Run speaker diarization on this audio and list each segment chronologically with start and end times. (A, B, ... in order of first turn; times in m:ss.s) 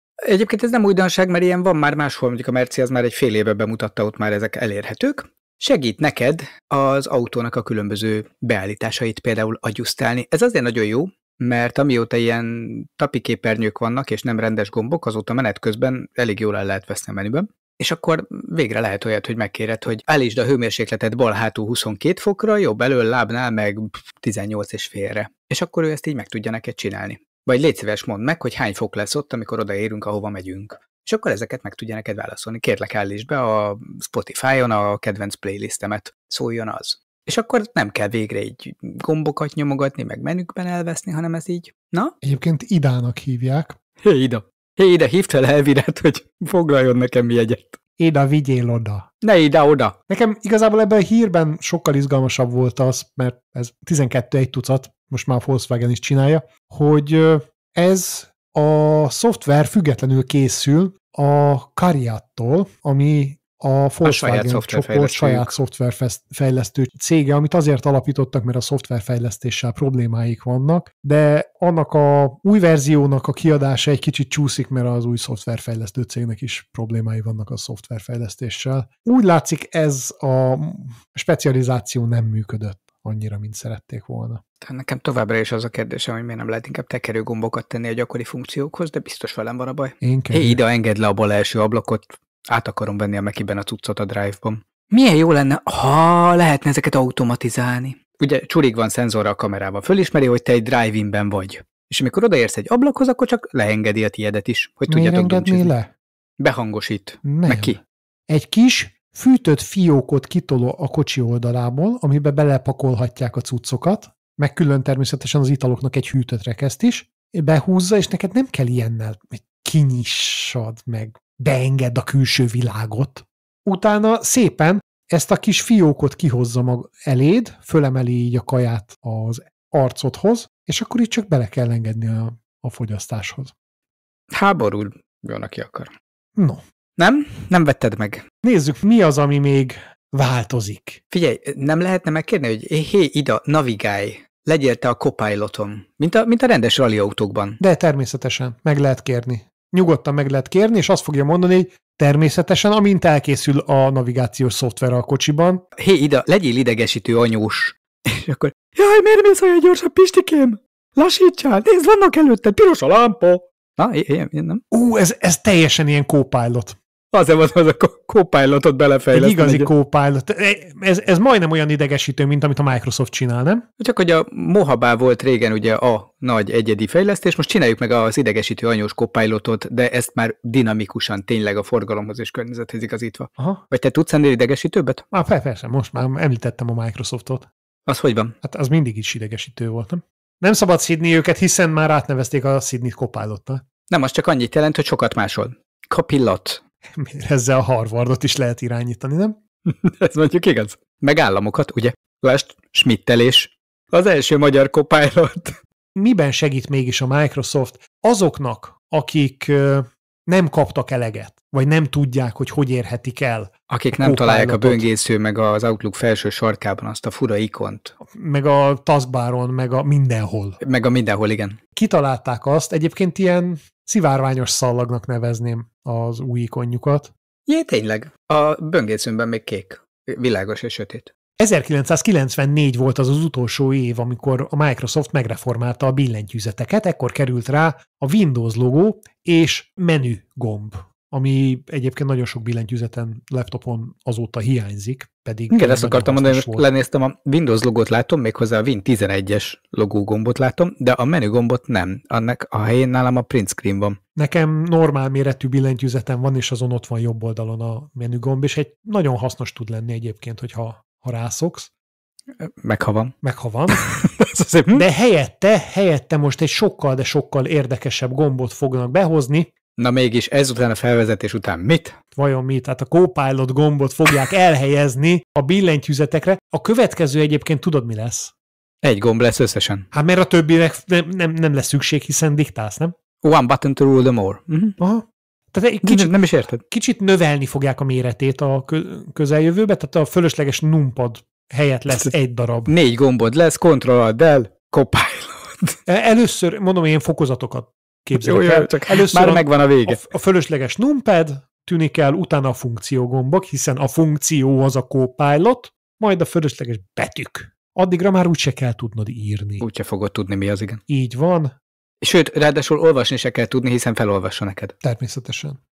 0:00.2-0:42.1 A
0:42.2-0:43.8 B
0:44.0-0:47.8 A
0:48.0-0:49.1 B
0:49.2-0:50.0 A
0:50.1-1:24.4 B
1:04.0-1:05.5 A
1:24.6-1:45.7 A
1:30.0-1:30.6 B
1:44.9-1:45.9 B
1:46.4-1:47.8 A
1:47.2-1:47.8 B
1:48.3-2:13.5 B
2:14.3-2:15.9 A
2:16.4-2:16.6 B
2:17.0-2:18.2 A
2:18.4-2:21.0 B
2:21.1-2:27.6 A
2:27.6-2:35.6 B
2:35.8-2:44.6 A
2:44.7-2:46.8 B
2:47.1-2:49.7 A
2:49.1-2:53.6 B
2:53.8-3:05.0 A
3:05.1-3:07.5 B
3:07.9-3:08.3 A
3:08.4-3:13.6 B
3:13.9-3:16.6 A
3:16.9-3:19.4 B
3:19.7-3:25.6 A
3:26.0-3:34.9 B
3:33.7-3:38.0 A
3:38.1-3:40.6 B
3:40.6-3:41.6 A
3:41.8-3:47.1 B
3:47.5-3:51.1 A
3:51.4-4:06.7 B
4:05.5-4:14.0 A
4:14.2-4:21.7 B
4:22.4-4:23.1 A
4:23.2-4:23.8 B
4:23.7-4:24.8 A
4:24.7-4:29.5 B
4:29.8-4:32.0 A
4:32.2-4:38.3 B
4:38.8-4:39.9 A
4:39.9-4:42.9 B
4:43.2-4:44.8 A
4:44.8-4:52.7 B
4:45.8-4:46.6 A
4:52.7-4:55.8 A
4:55.9-5:09.7 B
4:58.2-5:00.0 A
5:09.6-5:10.8 A
5:10.9-5:11.5 B
5:12.0-5:14.7 A
5:14.8-5:15.6 B